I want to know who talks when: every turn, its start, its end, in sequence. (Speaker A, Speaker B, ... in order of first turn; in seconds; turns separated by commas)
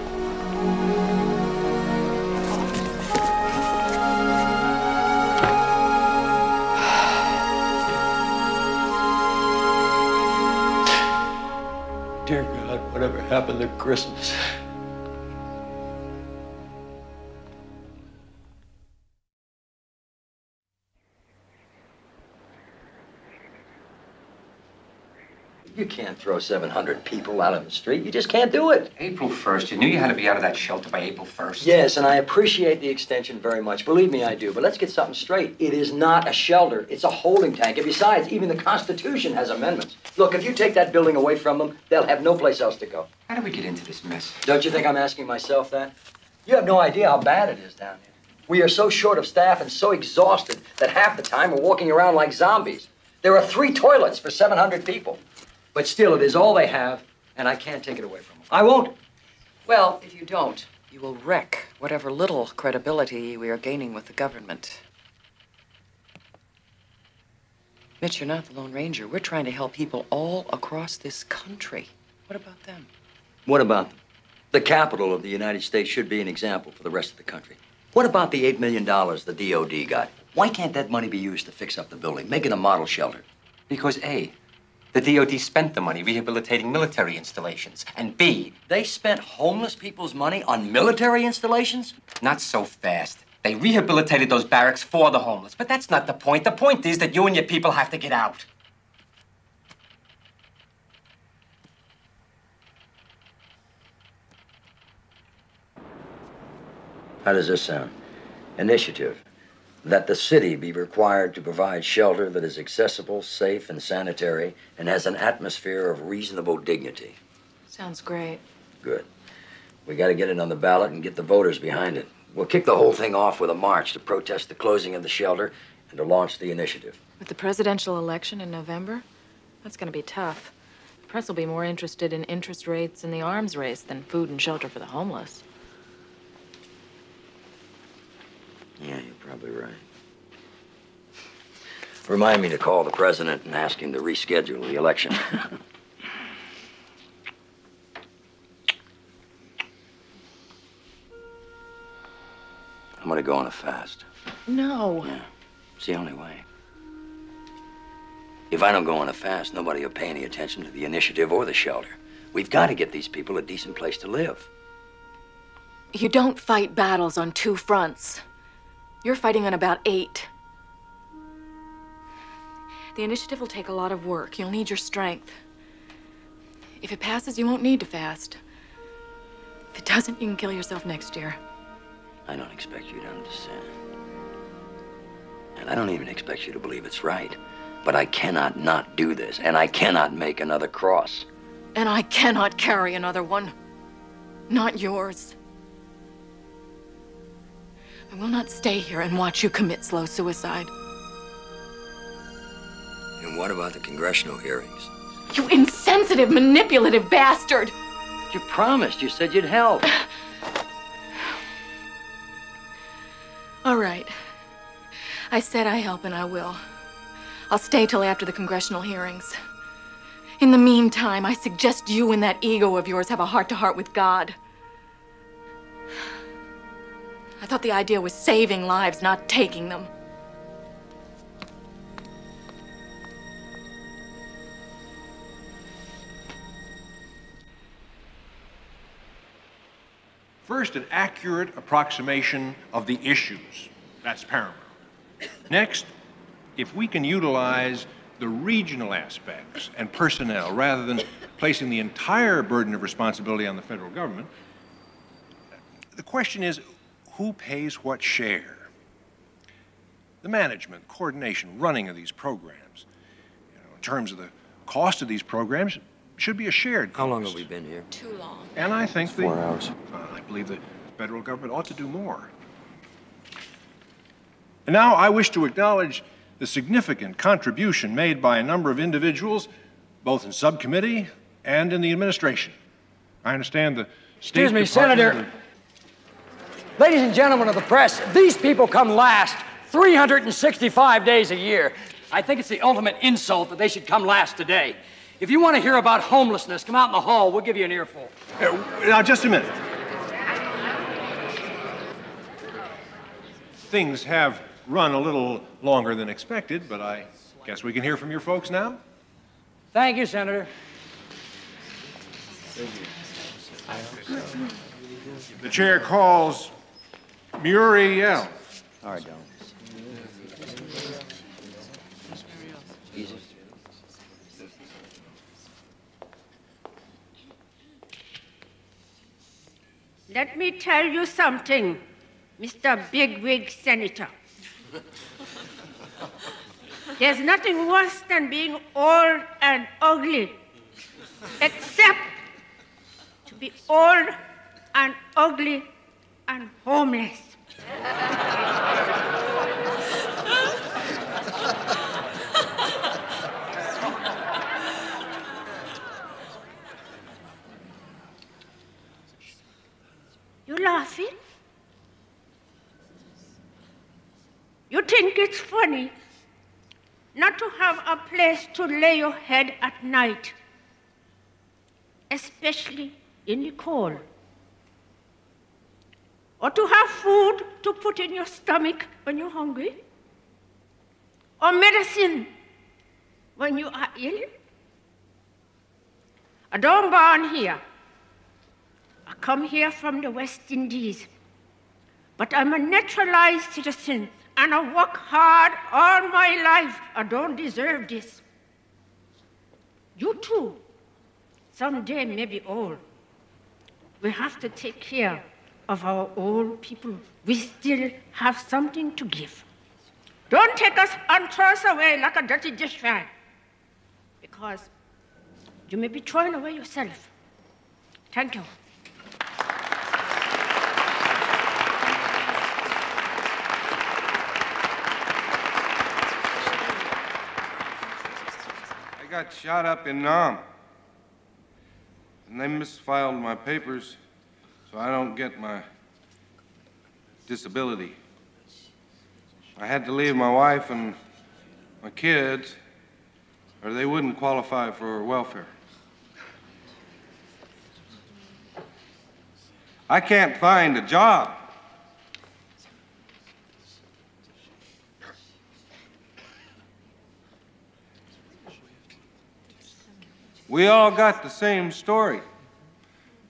Speaker A: 12.3-14.3, Speaker A: 25.7-28.9, Speaker B: 29.0-31.8, Speaker A: 31.6-43.1, Speaker B: 43.3-44.4, Speaker A: 44.4-45.9, Speaker A: 46.5-51.4, Speaker C: 51.0-52.4, Speaker A: 52.4-55.2, Speaker C: 53.2-54.6, Speaker C: 55.8-56.9, Speaker A: 56.9-58.9, Speaker D: 59.7-64.8, Speaker D: 68.0-72.9, Speaker A: 73.5-74.0, Speaker A: 74.5-83.2, Speaker B: 83.7-84.3, Speaker B: 84.9-88.5, Speaker A: 88.7-92.0, Speaker B: 92.2-98.5, Speaker A: 107.2-108.0, Speaker A: 108.6-109.2, Speaker A: 109.8-117.2, Speaker E: 117.7-118.4, Speaker A: 118.8-119.1, Speaker A: 119.9-127.0, Speaker E: 127.2-129.0, Speaker E: 129.6-130.5, Speaker E: 131.1-135.4, Speaker A: 138.8-139.8, Speaker A: 142.1-145.4, Speaker A: 153.0-154.1, Speaker E: 154.5-155.1, Speaker A: 155.8-156.5, Speaker A: 158.5-164.5, Speaker E: 165.9-168.2, Speaker E: 169.0-170.3, Speaker E: 172.9-175.4, Speaker E: 176.8-178.4, Speaker E: 179.7-181.4, Speaker A: 182.3-183.7, Speaker A: 185.6-191.3, Speaker E: 191.8-193.5, Speaker E: 194.5-195.4, Speaker E: 198.1-200.7, Speaker A: 203.2-204.9, Speaker E: 205.3-207.7, Speaker A: 208.3-209.9, Speaker E: 213.6-214.1, Speaker E: 215.3-216.6, Speaker E: 217.5-219.4, Speaker E: 220.4-224.4, Speaker E: 227.4-229.9, Speaker F: 240.4-244.7, Speaker F: 245.5-245.9, Speaker F: 246.6-254.3, Speaker F: 255.9-258.7, Speaker F: 260.2-262.9, Speaker F: 263.5-267.5, Speaker A: 266.9-267.9, Speaker F: 268.6-272.3, Speaker F: 274.7-279.5, Speaker F: 280.0-282.6, Speaker F: 283.2-285.2, Speaker C: 284.3-285.2, Speaker C: 286.8-298.1, Speaker F: 298.4-299.5, Speaker F: 303.7-308.8, Speaker C: 309.7-310.5, Speaker F: 315.4-316.5, Speaker F: 317.4-318.4, Speaker A: 318.8-319.3, Speaker A: 322.9-323.2, Speaker G: 330.1-331.8, Speaker G: 332.4-334.1, Speaker G: 337.0-340.4, Speaker G: 341.4-342.1, Speaker G: 343.3-344.2, Speaker G: 344.7-345.7, Speaker G: 346.3-347.4, Speaker G: 360.5-361.2, Speaker G: 364.7-365.9, Speaker G: 367.1-370.4, Speaker G: 372.1-374.1, Speaker G: 376.4-379.8, Speaker G: 381.4-382.3, Speaker G: 383.4-384.3, Speaker G: 386.5-387.6, Speaker G: 389.1-391.1, Speaker G: 392.2-398.2, Speaker G: 399.9-400.6, Speaker G: 401.5-402.8, Speaker G: 404.0-409.5, Speaker G: 410.3-413.1, Speaker G: 414.2-414.7, Speaker G: 415.7-417.1, Speaker G: 418.1-418.5, Speaker H: 429.0-430.4, Speaker H: 432.3-434.0, Speaker H: 434.7-435.7, Speaker H: 437.3-438.0, Speaker H: 439.6-441.0, Speaker H: 441.8-442.6, Speaker H: 443.6-445.5, Speaker H: 449.9-451.5, Speaker H: 460.5-462.2